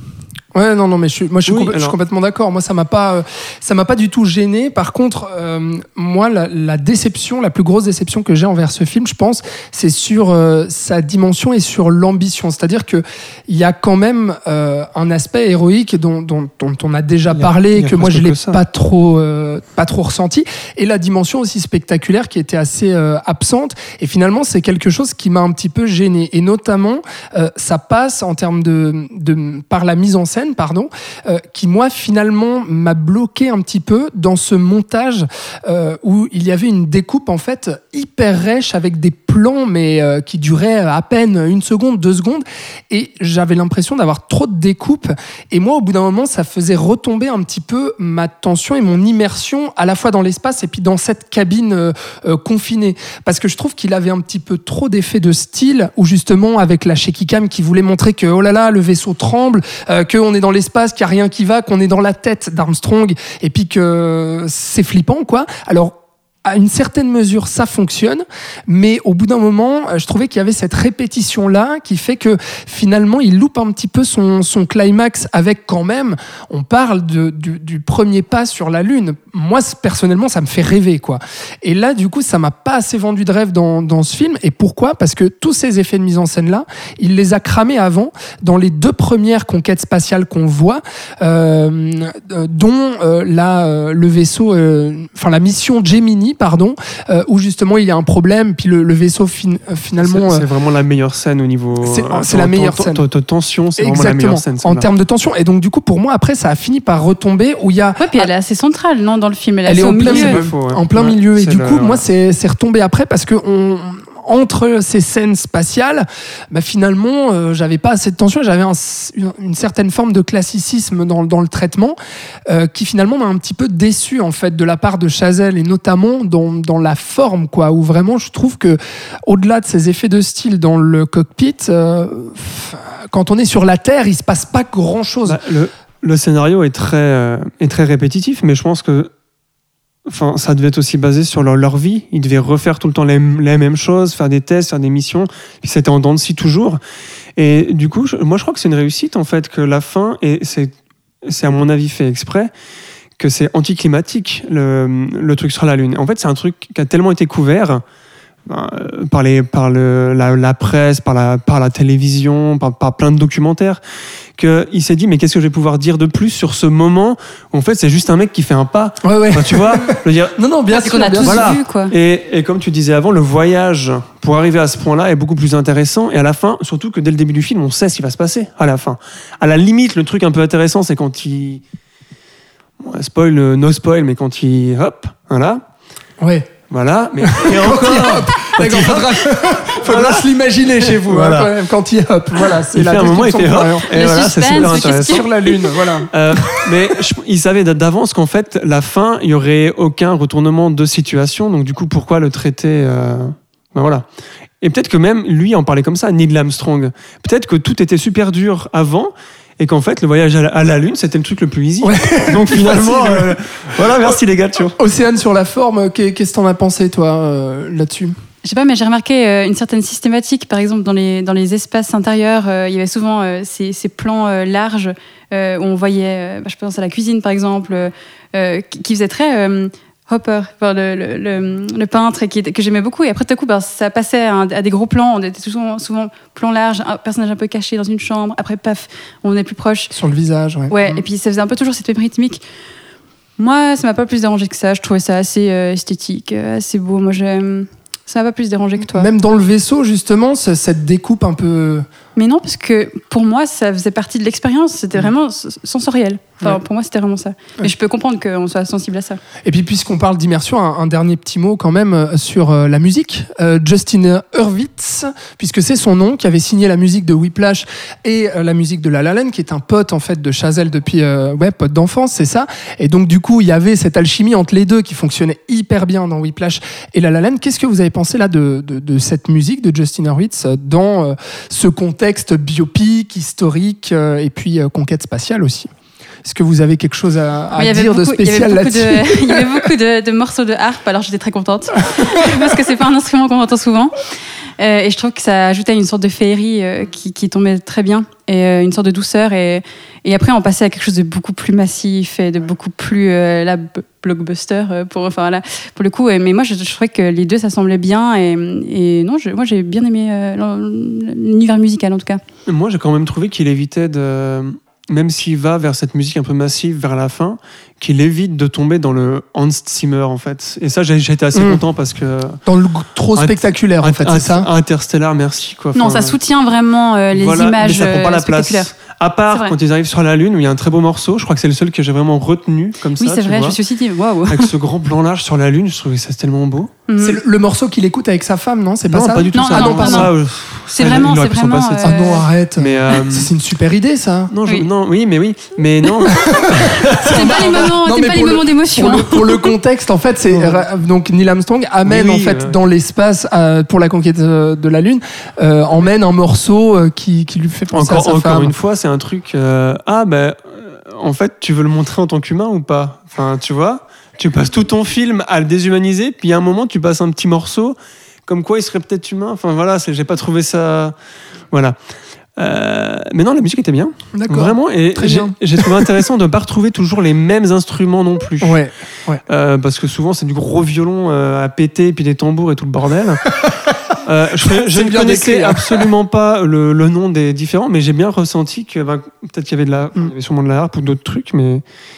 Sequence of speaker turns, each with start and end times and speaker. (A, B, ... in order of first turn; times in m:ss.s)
0:00.5-1:40.5 A
0:01.4-0:02.0 B
0:17.3-0:18.6 B
1:40.0-1:44.9 B
1:41.8-1:43.0 A
1:43.8-1:48.3 A
1:48.0-1:50.4 C
1:49.6-2:15.4 A
1:50.0-1:52.0 B
2:15.3-2:19.1 B
2:20.1-2:26.8 B
2:27.4-2:30.7 B
2:31.2-2:32.5 B
2:33.2-2:37.8 B
2:38.4-2:43.8 B
2:44.4-2:50.4 B
2:49.0-2:51.5 A
2:50.7-2:51.9 C
2:51.2-3:01.6 B
3:02.8-3:05.6 B
3:06.2-3:06.5 A
3:06.7-3:11.6 B
3:07.2-3:16.9 A
3:12.7-3:15.5 B
3:13.9-3:15.3 C
3:16.1-3:24.0 B
3:24.6-3:34.8 B
3:31.8-3:33.4 A
3:34.8-3:38.1 A
3:38.4-3:59.9 C
3:59.9-4:01.0 A
4:00.7-4:02.4 C
4:03.4-4:09.1 C
4:08.9-4:11.9 A
4:12.1-4:19.2 C
4:19.4-4:45.7 A
4:46.2-4:49.6 A
4:47.6-4:54.0 C
4:52.0-4:52.3 A
4:54.6-5:12.2 C
5:12.4-5:22.4 B
5:21.4-5:21.6 A
5:22.4-5:24.5 A
5:23.2-5:26.2 B
5:25.8-5:28.7 C
5:27.1-5:33.6 B
5:33.0-5:34.5 C
5:34.3-5:36.7 B
5:36.9-5:37.2 C
5:37.0-5:40.1 A
5:38.9-5:43.3 B
5:39.3-5:40.1 C
5:40.7-5:42.2 C
5:41.8-5:44.3 A
5:44.3-5:47.7 B
5:46.1-5:58.5 A
5:47.0-5:49.5 C
5:50.3-5:50.6 B
5:51.8-5:52.6 B
5:57.7-6:07.8 B
6:08.3-6:10.9 B
6:11.5-6:11.8 B
6:12.4-6:18.6 B
6:14.1-6:15.9 A
6:18.4-6:19.2 A
6:19.3-6:23.3 B
6:23.4-6:23.7 A
6:24.0-6:31.6 B
6:24.4-6:25.9 A